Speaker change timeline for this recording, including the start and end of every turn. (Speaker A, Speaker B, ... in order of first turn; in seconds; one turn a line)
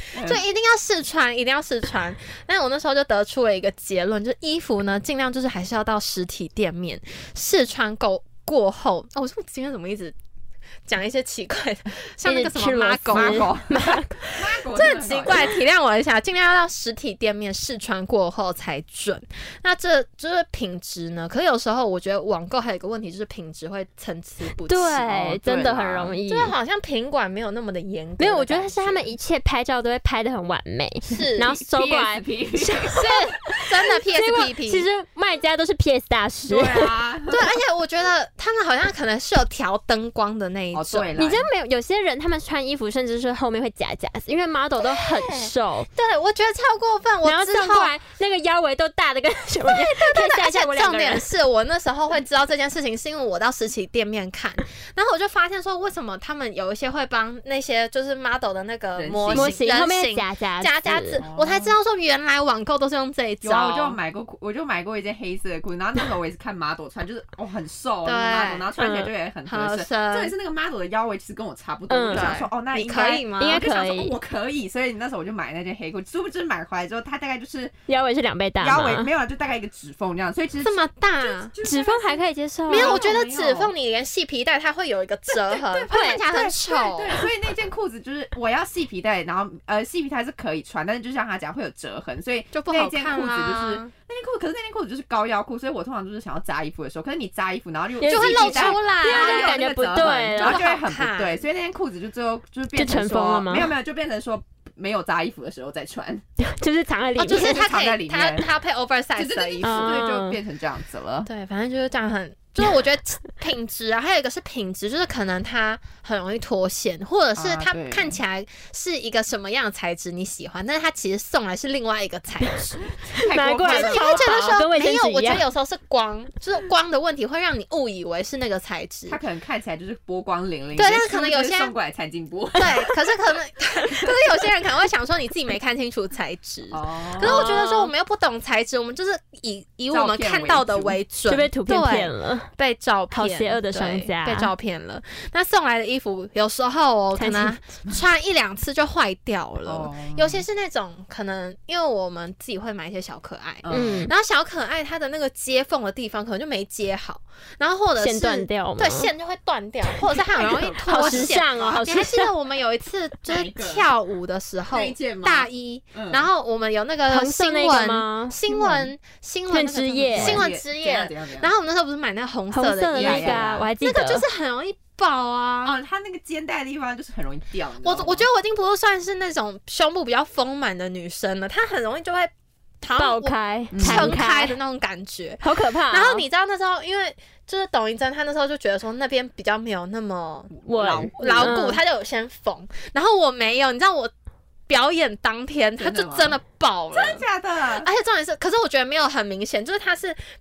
Speaker A: 0.1-10.1
Speaker B: 0.1-0.4
Speaker A: 10.9-25.1
Speaker C: 12.2-14.1
Speaker B: 13.1-15.6
Speaker C: 24.6-26.5
Speaker B: 25.1-26.2
Speaker A: 26.3-29.1
Speaker C: 28.2-36.9
Speaker A: 31.1-31.5
Speaker B: 31.4-33.1
Speaker A: 32.9-34.9
Speaker B: 36.5-37.5
Speaker A: 37.3-41.1
Speaker B: 40.7-41.5
Speaker C: 41.2-45.9
Speaker A: 44.8-47.9
Speaker C: 47.2-51.2
Speaker A: 49.6-64.0
Speaker B: 59.0-59.6
Speaker C: 59.3-61.2
Speaker B: 61.2-61.8
Speaker B: 63.4-77.7
Speaker A: 68.0-68.7
Speaker C: 68.8-69.1
Speaker A: 69.5-70.3
Speaker C: 71.9-72.3
Speaker A: 72.1-73.6
Speaker C: 73.4-74.1
Speaker C: 77.9-79.1
Speaker B: 78.6-83.7
Speaker A: 80.6-81.5
Speaker C: 81.6-83.0
Speaker A: 82.7-87.2
Speaker B: 85.3-106.2
Speaker C: 85.9-86.2
Speaker A: 92.5-93.9
Speaker C: 98.0-100.6
Speaker A: 98.0-101.4
Speaker C: 102.7-103.7
Speaker C: 106.4-107.6
Speaker A: 107.2-110.0
Speaker B: 107.3-108.5
Speaker B: 109.2-111.3
Speaker C: 109.6-110.4
Speaker A: 111.3-122.9
Speaker B: 117.4-118.2
Speaker B: 123.0-124.6
Speaker C: 123.3-125.4
Speaker A: 123.6-129.2
Speaker B: 129.1-133.0
Speaker A: 130.8-131.7
Speaker A: 132.6-175.8
Speaker B: 133.9-134.2
Speaker B: 136.7-137.6
Speaker C: 137.2-137.9
Speaker B: 139.9-141.0
Speaker C: 141.3-142.5
Speaker C: 143.1-144.5
Speaker C: 147.2-147.6
Speaker B: 149.6-150.4
Speaker B: 153.6-154.1
Speaker C: 153.7-154.1
Speaker C: 158.0-159.1
Speaker B: 160.3-161.8
Speaker C: 160.8-162.3
Speaker B: 163.2-163.9
Speaker B: 164.7-166.3
Speaker C: 167.1-168.4
Speaker B: 168.5-168.9
Speaker C: 169.5-170.4
Speaker B: 170.1-171.5
Speaker C: 172.5-174.2
Speaker B: 172.9-173.7
Speaker B: 175.6-178.3
Speaker A: 177.8-190.6
Speaker C: 182.9-184.6
Speaker B: 183.7-184.2
Speaker C: 185.4-186.2
Speaker B: 190.5-191.6
Speaker C: 190.7-191.8
Speaker A: 191.2-194.1
Speaker A: 194.7-197.2
Speaker B: 195.8-196.4
Speaker B: 196.9-197.9
Speaker A: 197.8-200.2